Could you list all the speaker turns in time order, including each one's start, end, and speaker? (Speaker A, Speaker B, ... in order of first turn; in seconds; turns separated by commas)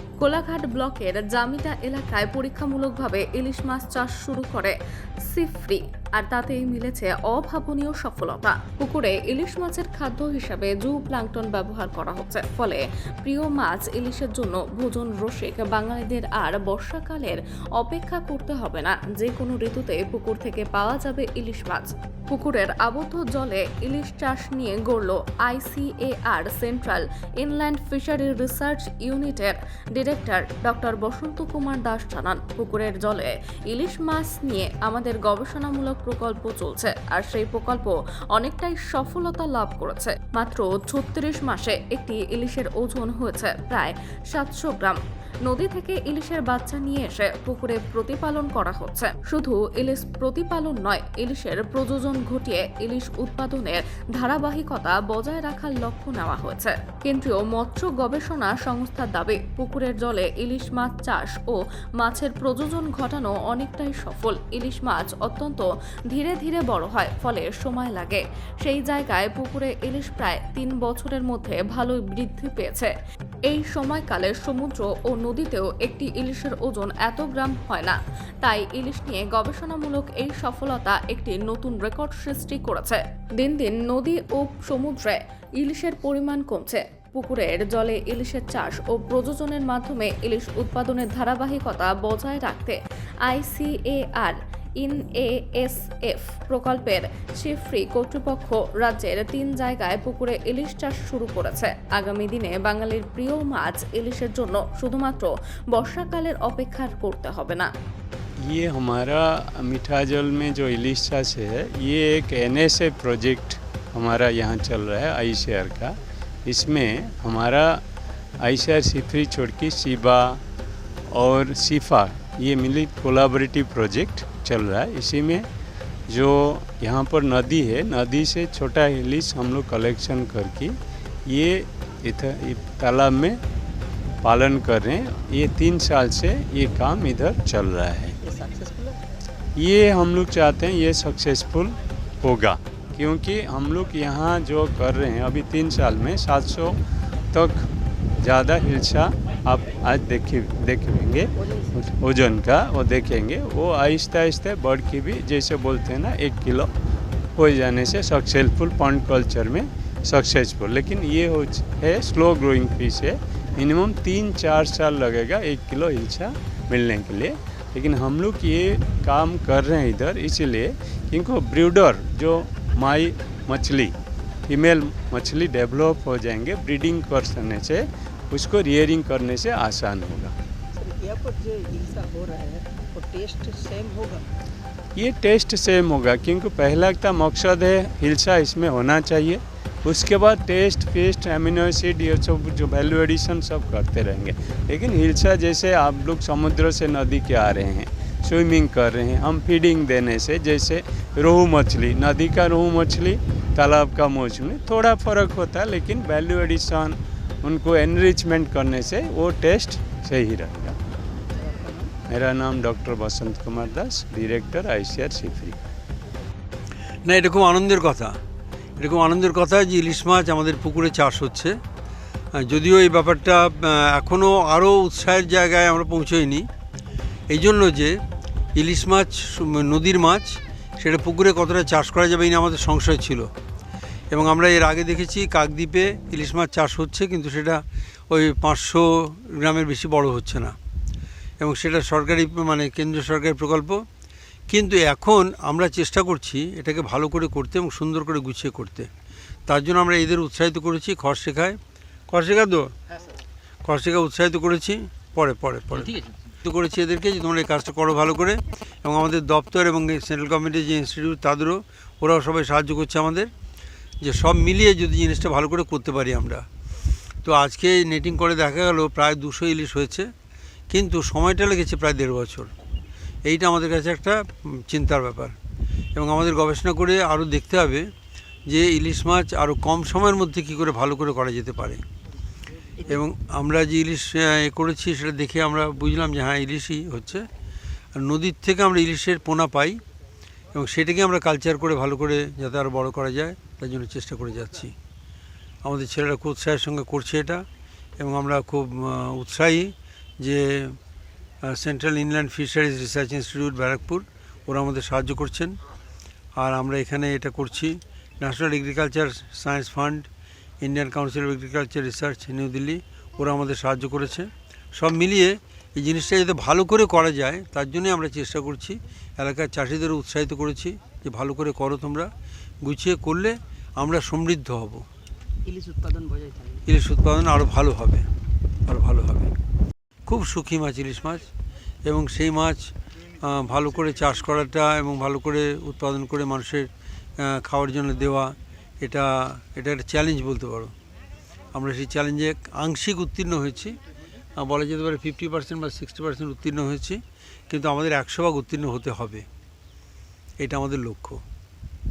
Speaker A: 0.2-72.9, Speaker A: 73.5-107.7, Speaker B: 108.4-117.8, Speaker B: 118.4-120.4, Speaker B: 121.1-125.5, Speaker B: 126.1-130.8, Speaker B: 131.3-133.4, Speaker B: 134.2-138.2, Speaker C: 138.2-139.0, Speaker B: 139.6-146.8, Speaker B: 147.3-147.7, Speaker B: 148.2-156.7, Speaker C: 151.4-151.7, Speaker B: 157.3-173.9, Speaker B: 174.5-180.3, Speaker C: 180.7-184.2, Speaker B: 184.9-210.7, Speaker C: 211.3-211.9, Speaker B: 212.1-215.6, Speaker D: 217.1-218.2, Speaker D: 218.8-221.5, Speaker D: 222.4-226.4, Speaker D: 227.3-228.0, Speaker D: 228.5-233.3, Speaker D: 234.1-240.6, Speaker D: 241.4-243.8, Speaker D: 244.5-248.9, Speaker D: 249.5-251.6, Speaker D: 252.1-252.7, Speaker D: 253.6-263.3, Speaker D: 264.0-266.4, Speaker D: 267.2-270.1, Speaker D: 270.7-272.5, Speaker D: 273.2-275.3, Speaker D: 275.9-277.9, Speaker D: 278.5-281.8, Speaker D: 282.9-287.2, Speaker D: 287.9-289.8, Speaker D: 290.5-294.7, Speaker D: 295.6-297.4, Speaker D: 298.0-300.8, Speaker D: 301.5-305.6, Speaker D: 306.4-310.1, Speaker D: 310.6-322.1, Speaker D: 322.6-324.8, Speaker C: 325.4-326.6, Speaker D: 326.6-328.1, Speaker D: 328.7-329.3, Speaker D: 330.1-331.3, Speaker D: 331.8-332.7, Speaker D: 333.2-336.7, Speaker D: 337.2-340.7, Speaker D: 341.5-343.8, Speaker D: 344.4-347.0, Speaker D: 347.5-349.2, Speaker D: 350.4-351.2